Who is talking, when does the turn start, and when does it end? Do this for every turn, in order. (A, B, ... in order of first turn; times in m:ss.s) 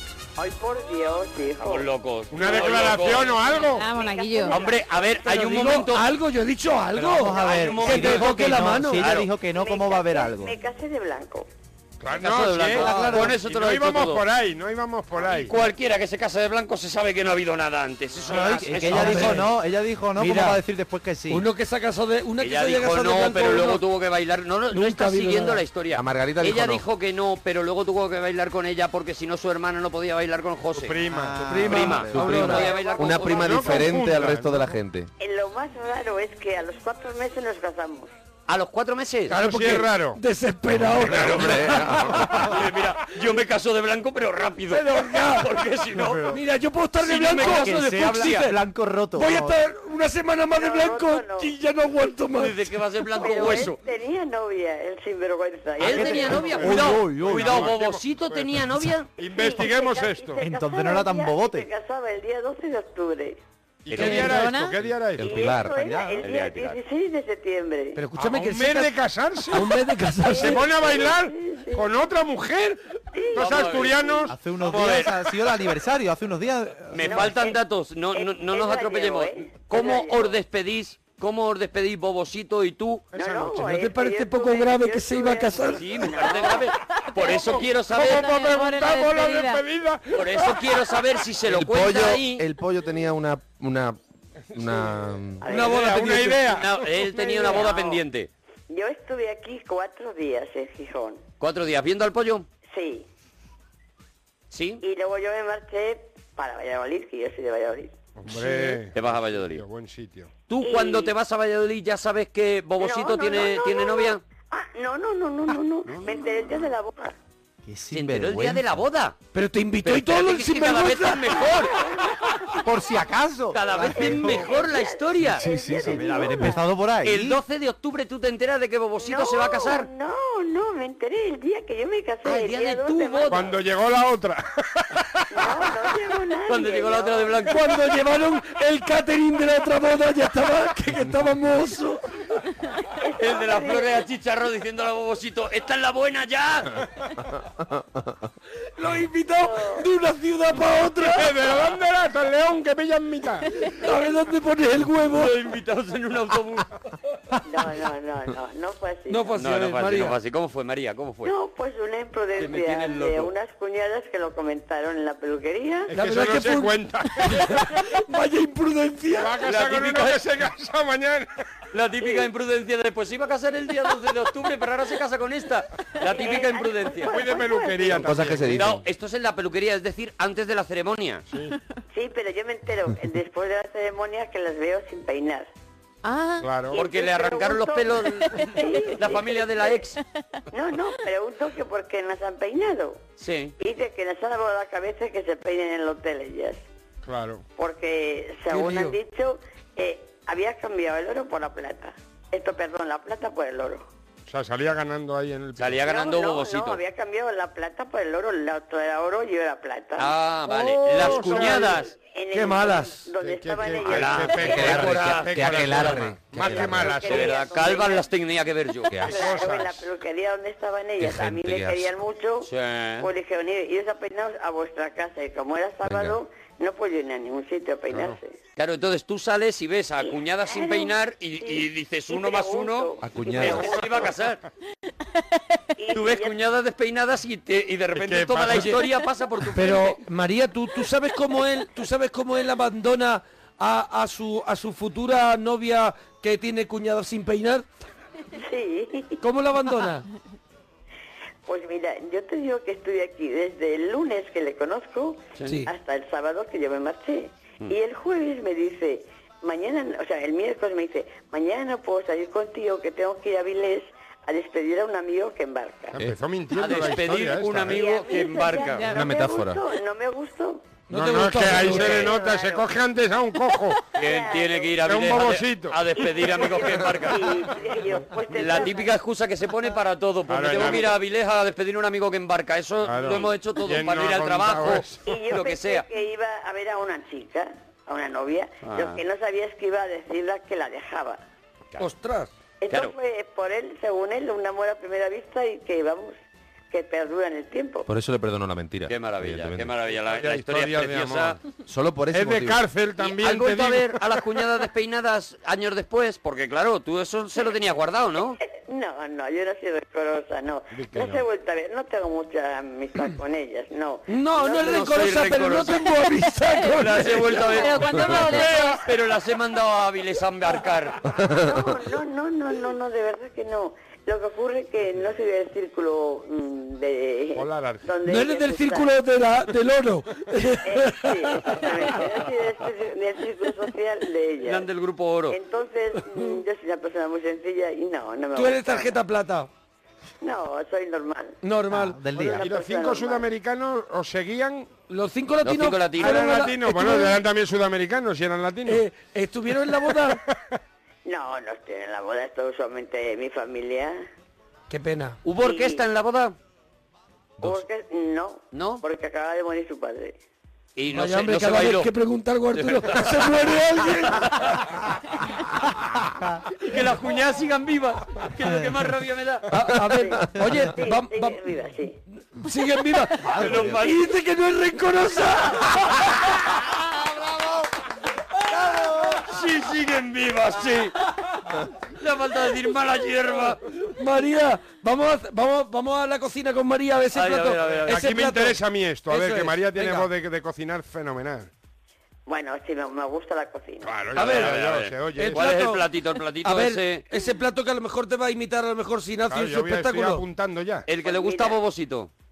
0:00.4-0:01.9 A
0:01.6-0:03.5 B
0:02.3-0:03.9 C
0:02.4-0:04.8 A
0:03.7-0:04.6 D
0:04.5-0:06.1 B
0:05.2-0:09.2 E
0:06.9-0:10.6 F
0:07.3-0:09.3 B
0:07.4-0:07.7 A
0:09.4-0:11.5 A
0:12.0-0:15.6 C
0:12.1-0:14.2 B
0:12.7-0:13.3 F
0:12.8-0:13.3 E
0:15.2-0:19.5 B
0:18.3-0:21.4 F
0:18.8-0:19.5 E
0:20.2-0:20.6 E
0:21.3-0:23.8 E
0:22.4-0:31.0 B
0:24.7-0:25.6 E
0:25.9-0:26.8 G
0:30.7-0:31.7 C
0:31.1-0:32.5 F
0:31.5-0:32.8 E
0:31.6-0:34.0 B
0:32.1-0:35.1 G
0:32.6-0:33.8 A
0:33.2-0:34.7 C
0:35.2-0:38.1 A
0:38.5-0:39.4 B
0:39.3-0:40.2 C
0:39.3-0:42.5 E
0:41.0-0:41.5 C
0:41.0-0:46.4 B
0:41.3-0:42.1 G
0:44.6-0:45.6 E
0:46.3-0:48.6 E
0:47.0-0:48.5 B
0:47.3-0:49.6 F
0:49.2-0:52.7 E
0:50.5-0:51.5 A
0:52.3-0:53.8 B
0:53.2-0:57.0 A
0:55.8-0:59.1 B
0:55.8-0:57.7 F
0:56.4-1:00.4 C
0:59.3-1:03.4 A
1:00.4-1:01.7 F
1:03.8-1:05.3 C
1:03.9-1:04.8 D
1:04.0-1:04.3 E
1:05.2-1:05.7 G
1:05.2-1:08.0 A
1:05.3-1:06.2 F
1:06.2-1:06.8 B
1:07.9-1:08.9 E
1:08.1-1:09.7 C
1:09.5-1:10.7 E
1:10.3-1:11.9 A
1:10.3-1:12.8 C
1:13.1-1:14.3 A
1:13.3-1:14.4 C
1:13.3-1:15.3 B
1:14.3-1:17.3 F
1:16.9-1:23.1 B
1:16.9-1:17.6 A
1:18.1-1:20.4 A
1:23.1-1:26.7 A
1:23.2-1:23.5 C
1:23.5-1:25.8 E
1:25.6-1:28.3 B
1:27.2-1:29.6 D
1:27.8-1:30.8 C
1:30.1-1:32.4 B
1:31.4-1:34.0 G
1:34.5-1:35.4 G
1:35.4-1:36.2 A
1:35.5-1:36.6 E
1:35.5-1:37.1 C
1:36.5-1:38.3 B
1:37.4-1:38.0 A
1:38.7-1:41.2 A
1:41.4-1:42.5 B
1:42.7-1:43.0 A
1:44.5-1:44.8 B
1:44.8-1:48.0 A
1:48.2-1:50.3 C
1:48.3-1:49.6 B
1:50.5-1:54.2 B
1:50.6-1:51.1 A
1:52.8-1:57.2 A
1:55.8-1:56.6 B
1:57.6-1:58.8 F
1:57.9-1:59.2 B
1:59.3-2:01.8 E
1:59.8-2:01.9 B
2:01.7-2:02.6 A
2:02.6-2:04.5 F
2:03.5-2:05.4 B
2:03.9-2:06.7 A
2:05.3-2:07.4 F
2:07.0-2:09.9 B
2:09.0-2:13.5 A
2:12.2-2:13.6 B
2:13.3-2:14.4 C
2:15.3-2:17.5 A
2:16.5-2:17.7 B
2:17.5-2:22.0 E
2:23.0-2:23.9 A
2:23.2-2:26.8 B
2:28.8-2:31.3 E
2:29.4-2:29.8 A
2:31.0-2:33.5 C
2:33.6-2:35.3 E
2:35.0-2:36.7 B
2:37.4-2:39.4 A
2:39.1-2:40.2 E
2:39.4-2:41.3 B
2:41.2-2:45.9 A
2:42.4-2:43.3 B
2:45.9-2:47.6 C
2:45.9-2:50.2 E
2:49.1-2:51.3 C
2:49.4-2:49.8 B
2:51.7-2:57.2 B
2:56.0-2:58.4 A
2:57.0-2:58.8 C
2:57.9-2:58.8 G
2:58.4-3:01.2 B
3:01.9-3:05.5 A
3:06.0-3:06.5 D
3:06.4-3:06.8 C
3:06.7-3:09.8 A
3:06.7-3:10.0 B
3:10.5-3:13.0 A
3:13.2-3:13.5 B
3:13.6-3:16.6 A
3:17.0-3:17.4 C
3:17.6-3:23.8 A
3:18.5-3:18.9 E
3:24.3-3:25.8 C
3:25.6-3:26.8 B
3:25.8-3:34.9 A
3:30.0-3:31.9 B
3:30.9-3:31.8 C
3:32.3-3:33.1 E
3:33.2-3:37.4 C
3:33.8-3:39.1 B
3:34.6-3:36.8 G
3:35.6-3:36.7 F
3:36.5-3:38.1 A
3:38.9-3:39.2 G
3:39.0-3:39.8 C
3:39.0-3:48.4 A
3:41.0-3:42.0 G
3:42.4-3:43.1 B
3:45.8-3:46.2 G
3:48.6-3:54.4 B
3:50.5-3:54.1 A
3:53.0-3:53.7 G
3:55.8-3:56.4 A
3:55.9-4:00.0 B
3:57.9-3:58.8 C
3:58.5-3:58.8 E
3:59.5-4:07.6 E
4:08.4-4:09.2 A
4:09.2-4:10.0 E
4:11.4-4:26.0 A
4:25.9-4:27.8 C
4:26.5-4:29.0 B
4:27.7-4:30.8 A
4:28.8-4:29.6 G
4:30.9-4:32.1 E
4:30.9-4:33.9 C
4:31.6-4:32.7 A
4:31.7-4:32.1 B
4:33.9-4:37.5 B
4:34.0-4:34.9 A
4:34.8-4:35.8 C
4:36.0-4:38.9 A
4:38.3-4:45.8 B
4:40.3-4:41.0 C
4:40.5-4:40.8 A
4:42.8-4:45.0 C
4:45.0-4:51.2 A
4:48.6-4:49.0 B
4:51.8-4:52.3 E
4:52.6-4:56.2 A
4:52.7-4:52.9 B
4:56.7-4:57.9 A
4:57.8-4:59.8 G
4:58.8-5:01.4 B
5:00.0-5:01.4 C
5:01.6-5:02.6 G
5:02.1-5:04.0 C
5:03.0-5:08.4 B
5:08.4-5:14.9 A
5:10.7-5:11.2 C
5:14.1-5:17.6 E
5:14.6-5:15.9 B
5:16.6-5:21.0 B
5:17.3-5:18.8 D
5:21.2-5:21.7 G
5:21.4-5:28.9 A
5:27.3-5:27.8 C
5:28.0-5:31.9 E
5:30.6-5:34.7 A
5:34.4-5:35.4 B
5:35.3-5:39.0 A
5:38.3-5:39.5 E
5:40.2-5:41.4 A
5:41.4-5:42.0 E
5:41.7-5:42.4 F
5:42.1-5:43.3 A
5:42.4-5:44.7 C
5:44.9-5:47.2 E
5:45.4-5:46.3 B
5:46.0-5:48.8 C
5:48.6-5:50.2 E
5:50.1-5:50.3 C
5:51.0-5:54.0 A
5:54.7-5:55.2 E
5:55.2-5:56.4 B
5:55.4-5:55.8 A
5:57.4-6:00.2 A
5:58.5-5:58.8 B
6:00.8-6:01.9 B
6:00.9-6:04.6 E
6:02.5-6:03.4 B
6:04.0-6:04.5 B
6:06.6-6:09.5 B
6:09.5-6:11.4 E
6:10.0-6:12.0 A
6:12.3-6:16.2 E
6:13.2-6:14.1 B
6:13.3-6:13.9 F
6:18.7-6:20.9 B
6:18.9-6:19.3 E
6:22.0-6:23.6 B
6:23.1-6:30.1 E
6:27.1-6:28.0 B
6:27.8-6:31.5 C
6:32.3-6:34.1 A
6:33.8-6:35.4 C
6:34.1-6:37.1 B
6:34.1-6:34.6 E
6:35.2-6:35.8 E
6:36.4-6:40.2 E
6:39.3-6:40.9 C
6:40.9-6:42.1 B
6:40.9-6:41.6 A